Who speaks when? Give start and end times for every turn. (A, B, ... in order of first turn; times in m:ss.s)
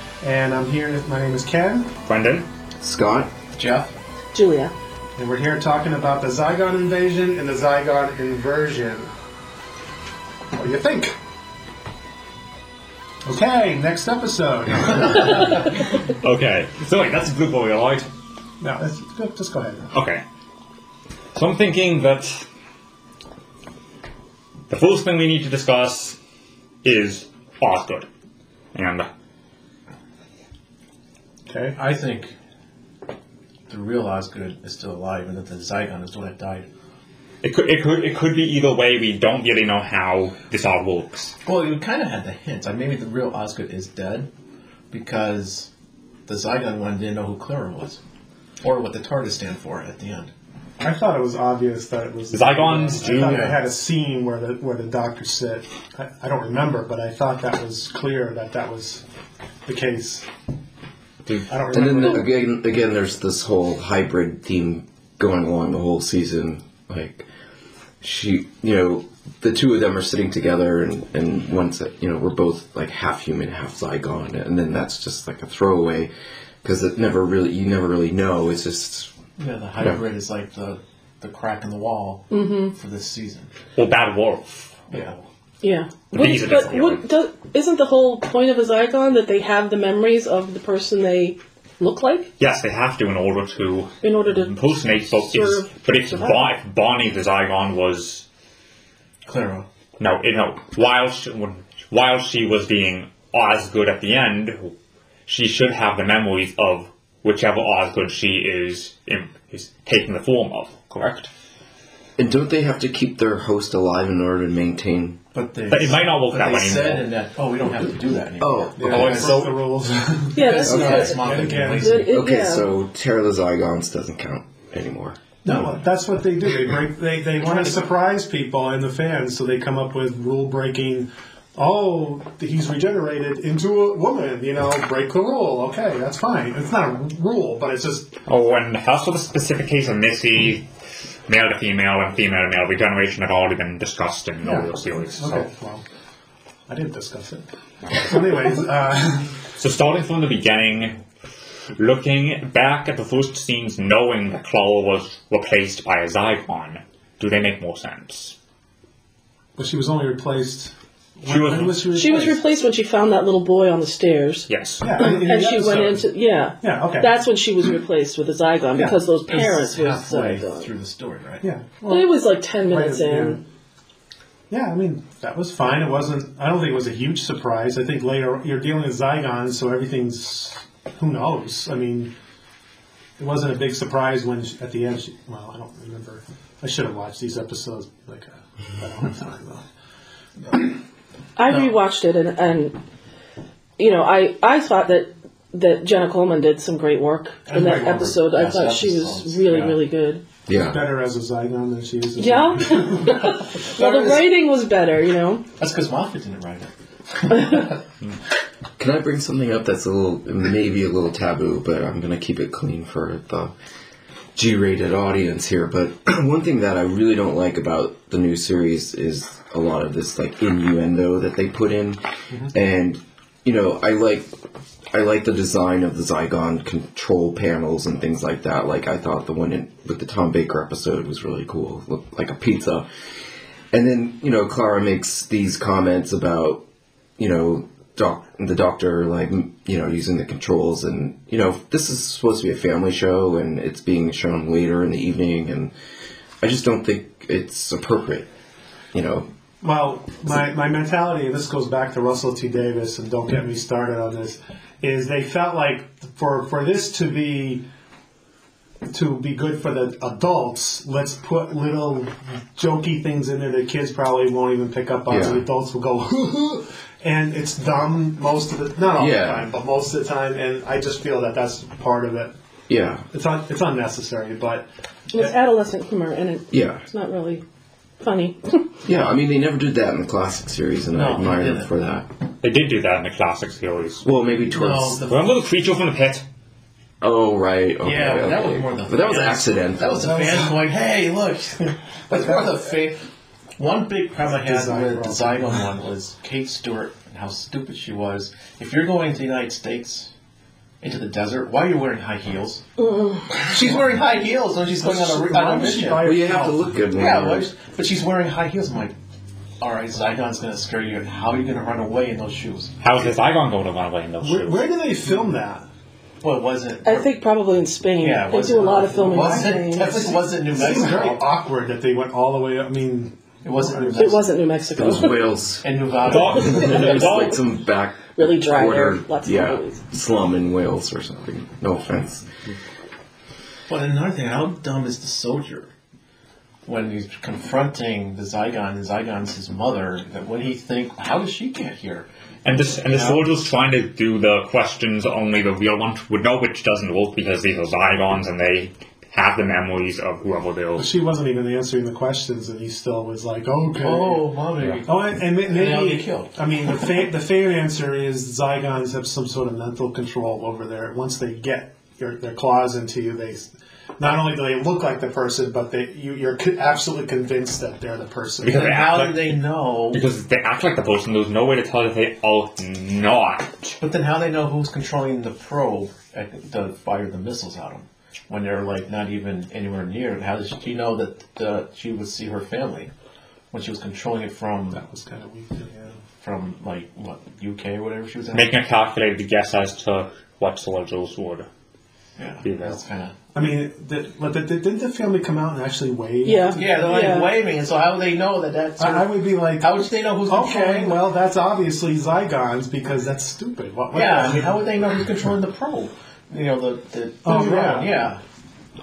0:00.2-0:01.9 A
0:02.1-0:02.5 B
0:02.8-0:03.3 C
0:03.6-0:03.9 D
0:04.3-0:04.7 E
0:05.2-0:09.1 A
0:10.6-0:11.2 A
0:13.2-0:15.6 A
0:15.0-0:18.1 B
0:18.6-0:19.9 A
0:19.9-0:20.2 B
0:21.4-0:22.5 B
0:24.7-0:26.2 B
0:26.8-0:28.1 B
0:28.7-0:29.1 B
0:31.5-0:31.8 A
0:31.7-0:32.3 D
0:33.7-0:36.7 D
0:37.4-0:41.4 B
0:41.4-0:44.3 D
0:44.9-0:45.7 D
0:46.3-0:48.0 D
0:48.6-0:50.3 D
0:50.8-0:59.0 A
0:52.3-0:53.6 B
0:53.2-0:53.6 D
0:59.7-1:00.3 A
1:01.2-1:02.2 B
1:01.5-1:02.3 A
1:01.7-1:07.3 C
1:08.0-1:16.1 C
1:16.6-1:19.1 C
1:19.4-1:23.5 D
1:22.3-1:22.7 E
1:23.8-1:24.8 B
1:24.9-1:25.2 D
1:25.6-1:32.3 E
1:26.1-1:27.0 B
1:32.4-1:38.2 B
1:34.0-1:36.5 E
1:39.3-1:39.7 D
1:40.0-1:44.7 B
1:45.3-1:51.3 B
1:52.2-1:55.2 C
1:55.3-1:59.5 D
1:55.7-1:57.1 B
1:58.4-1:59.2 C
1:58.8-2:02.1 A
1:58.8-1:59.7 B
2:00.4-2:01.2 E
2:00.4-2:02.2 D
2:00.8-2:01.1 C
2:01.8-2:02.7 E
2:02.1-2:05.2 C
2:05.4-2:05.9 D
2:05.4-2:18.1 A
2:07.4-2:07.9 D
2:18.3-2:20.7 B
2:21.3-2:25.5 B
2:24.4-2:25.8 A
2:26.7-2:29.4 A
2:29.6-2:31.0 B
2:31.8-2:38.4 B
2:39.6-2:42.5 A
2:41.3-2:41.9 B
2:42.0-2:50.7 E
2:44.5-2:44.9 B
2:44.8-2:46.1 A
2:46.6-2:47.1 A
2:48.8-2:49.1 A
2:49.2-2:51.5 D
2:51.4-2:52.1 A
2:51.9-2:53.4 E
2:52.6-2:53.4 A
2:54.5-3:02.1 A
3:03.2-3:09.6 A
3:11.4-3:12.8 E
3:13.8-3:20.2 E
3:17.5-3:18.1 A
3:17.5-3:19.8 D
3:20.5-3:20.8 C
3:20.7-3:23.1 A
3:22.2-3:25.4 E
3:23.2-3:24.3 D
3:25.6-3:27.8 D
3:28.8-3:33.5 C
3:34.4-3:42.0 C
3:42.5-3:44.3 C
3:44.9-3:52.9 C
3:53.7-3:56.6 C
3:57.2-4:05.7 C
4:06.4-4:08.3 C
4:08.9-4:09.3 C
4:09.6-4:17.6 A
4:18.9-4:32.3 A
4:25.1-4:25.4 C
4:29.0-4:29.5 C
4:32.7-4:33.1 C
4:33.1-4:35.4 A
4:35.1-4:37.4 E
4:36.5-4:36.8 C
4:38.0-4:38.6 E
4:38.8-4:42.1 C
4:40.9-4:41.7 D
4:42.4-4:44.0 B
4:44.0-4:45.0 C
4:44.5-4:45.4 D
4:45.1-4:46.2 B
4:47.0-4:50.1 C
4:47.8-4:53.1 D
4:50.0-4:50.6 A
4:53.6-5:00.1 D
4:54.3-4:55.6 A
5:00.8-5:02.7 D
5:02.8-5:03.3 E
5:03.3-5:06.1 D
5:03.5-5:03.9 A
5:04.8-5:06.8 A
5:06.0-5:07.5 C
5:06.9-5:09.0 D
5:09.6-5:12.9 D
5:12.8-5:14.6 B
5:14.2-5:15.7 A
5:16.2-5:17.1 D
5:16.8-5:20.0 E
5:18.0-5:21.2 D
5:19.1-5:24.2 A
5:23.4-5:24.3 D
5:24.0-5:25.3 E
5:24.8-5:32.3 C
5:25.6-5:27.2 D
5:26.0-5:27.4 B
5:26.5-5:27.1 E
5:28.2-5:29.8 E
5:33.7-5:35.7 D
5:36.6-5:42.1 D
5:42.4-5:50.9 B
5:42.8-5:43.5 D
5:50.8-5:54.3 A
5:53.8-5:56.4 D
5:54.9-6:08.7 A
6:08.4-6:09.4 B
6:08.4-6:10.1 D
6:09.9-6:13.8 B
6:13.8-6:22.9 D
6:23.5-6:24.8 D
6:24.7-6:26.0 A
6:26.2-6:28.6 D
6:28.3-6:31.5 B
6:32.2-6:33.2 D
6:32.4-6:32.8 B
6:33.3-6:37.0 A
6:36.2-6:37.3 E
6:36.5-6:41.1 D
6:38.8-6:39.7 A
6:40.3-6:44.6 A
6:43.9-6:48.2 D
6:47.2-6:47.9 A